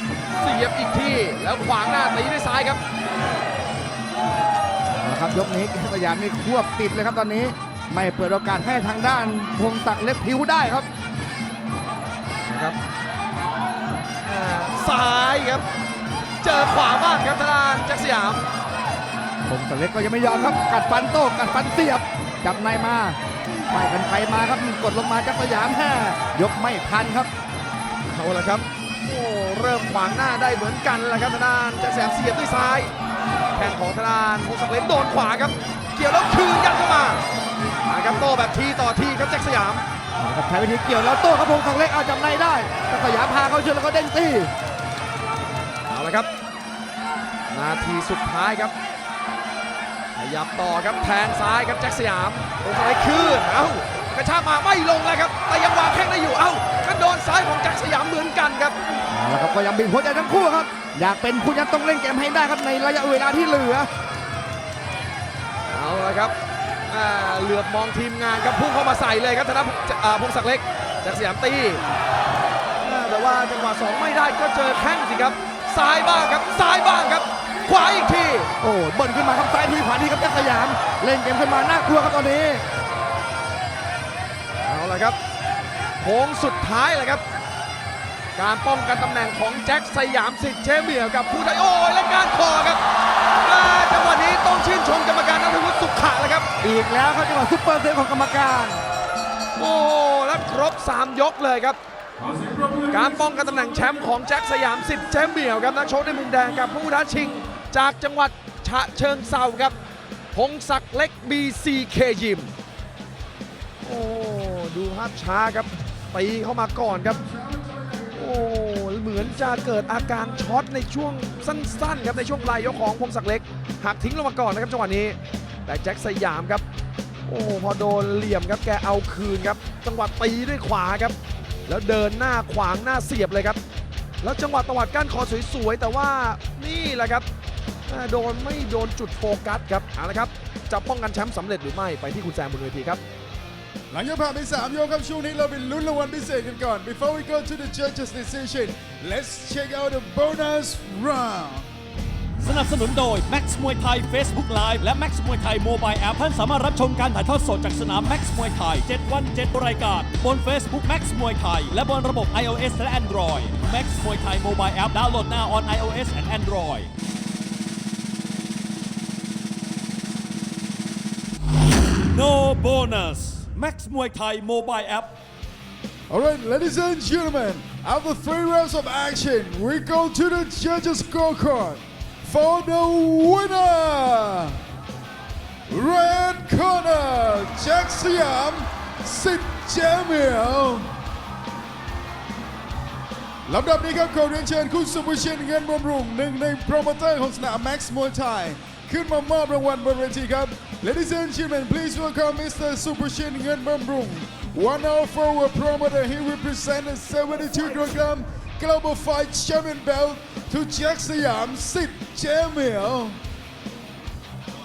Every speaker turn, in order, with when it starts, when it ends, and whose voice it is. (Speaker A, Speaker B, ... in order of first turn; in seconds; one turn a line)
Speaker A: 0.4-2.8
Speaker B: 4.9-10.9
Speaker A: 12.4-12.8
Speaker A: 14.2-15.6
Speaker A: 16.4-18.4
Speaker B: 19.5-23.2
Speaker B: 23.7-27.3
Speaker A: 28.1-32.9
Speaker A: 33.5-37.2
Speaker A: 37.9-39.8
Speaker B: 40.2-44.5
Speaker A: 45.9-46.3
Speaker A: 47.5-48.7
Speaker A: 50.1-58.8
Speaker B: 59.1-63.9
Speaker A: 65.7-66.3
Speaker A: 66.9-71.8
Speaker A: 72.8-78.5
Speaker B: 78.6-82.6
Speaker A: 84.6-85.2
Speaker A: 86.0-87.2
Speaker A: 88.3-92.8
Speaker A: 93.4-96.5
Speaker B: 96.6-98.8
Speaker A: 99.5-101.8
Speaker A: 102.9-109.8
Speaker A: 110.3-112.5
Speaker A: 113.8-117.2
Speaker A: 118.1-126.6
Speaker A: 127.3-131.1
Speaker A: 131.7-133.6
Speaker A: 134.2-137.2
Speaker A: 137.9-143.0
Speaker C: 143.9-151.7
Speaker D: 152.4-166.9
Speaker D: 172.0-175.2
Speaker C: 176.1-184.6
Speaker C: 185.7-190.9
Speaker C: 193.4-213.2